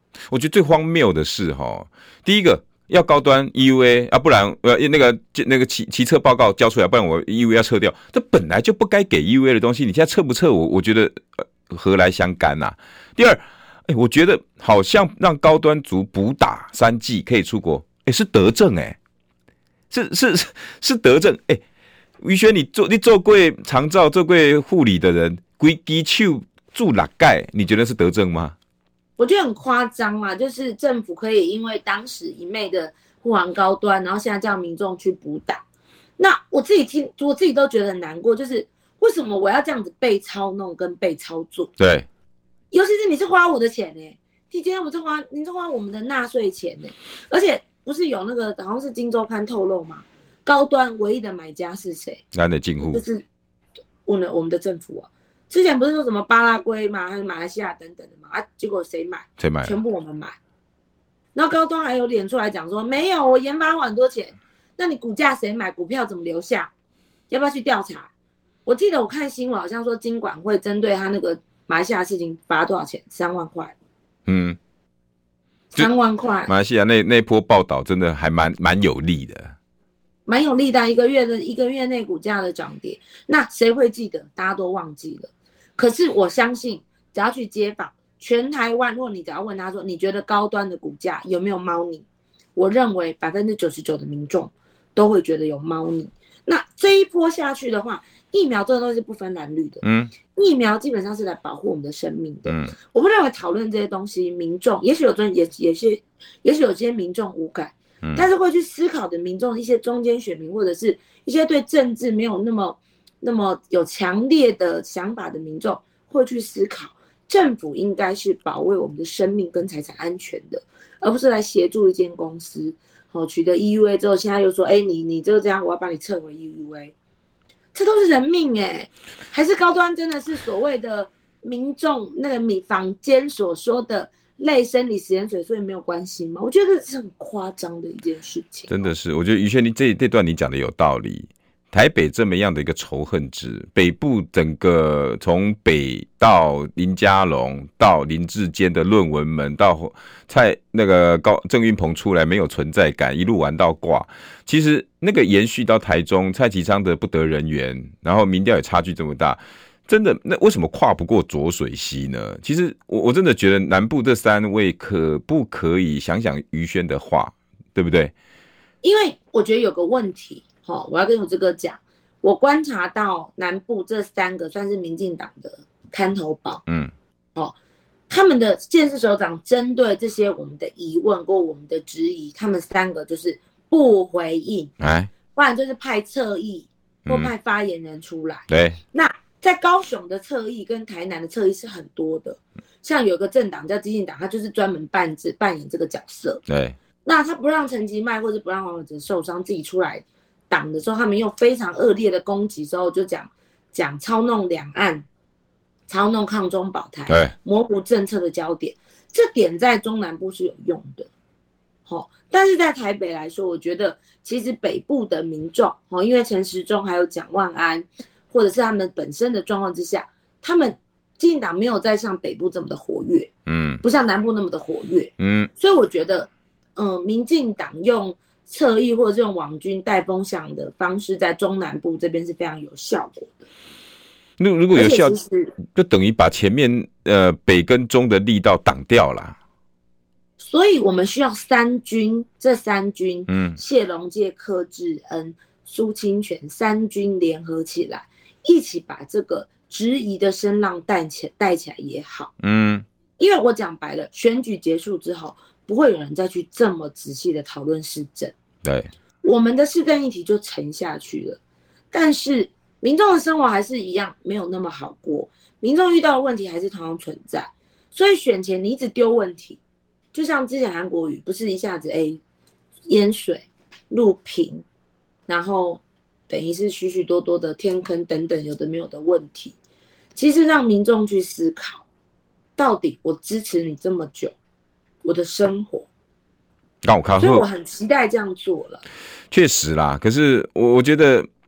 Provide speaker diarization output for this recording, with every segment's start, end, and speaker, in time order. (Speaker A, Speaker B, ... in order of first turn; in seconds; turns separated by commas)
Speaker A: 0.3-19.0, Speaker A: 19.9-21.6, Speaker A: 22.2-28.6, Speaker B: 29.2-35.6, Speaker B: 36.2-41.7, Speaker A: 41.8-42.1, Speaker B: 42.7-52.2, Speaker A: 52.3-53.0, Speaker B: 52.8-53.2, Speaker B: 54.1-60.4, Speaker A: 59.4-59.8, Speaker B: 61.4-66.7, Speaker B: 67.3-68.1, Speaker B: 68.7-73.8, Speaker A: 74.3-74.6, Speaker B: 75.7-76.5, Speaker A: 76.5-79.5, Speaker B: 80.2-92.0, Speaker B: 92.5-126.9, Speaker A: 99.8-100.1, Speaker A: 102.5-102.7, Speaker B: 127.7-138.7, Speaker A: 138.7-168.1, Speaker B: 168.8-176.6, Speaker A: 176.7-176.9, Speaker B: 178.1-184.7, Speaker A: 184.8-185.1, Speaker B: 185.3-196.4, Speaker A: 187.1-187.3, Speaker A: 188.5-188.8, Speaker A: 196.5-196.8, Speaker B: 197.0-205.0, Speaker B: 205.9-211.1, Speaker A: 207.1-207.3, Speaker B: 211.9-223.3, Speaker A: 223.5-223.8, Speaker B: 223.8-233.5, Speaker A: 225.2-225.5, Speaker A: 234.4-239.4, Speaker B: 234.7-235.6, Speaker B: 240.4-252.3, Speaker A: 243.3-243.6, Speaker A: 252.4-252.8, Speaker B: 253.2-258.3, Speaker A: 258.6-258.9, Speaker B: 259.2-261.4, Speaker B: 261.9-269.6, Speaker B: 270.1-272.2, Speaker B: 272.9-274.6, Speaker B: 275.3-279.5, Speaker B: 280.1-281.9, Speaker B: 282.6-284.4, Speaker B: 285.0-285.9, Speaker A: 286.8-287.4, Speaker B: 287.2-288.8, Speaker A: 289.3-291.3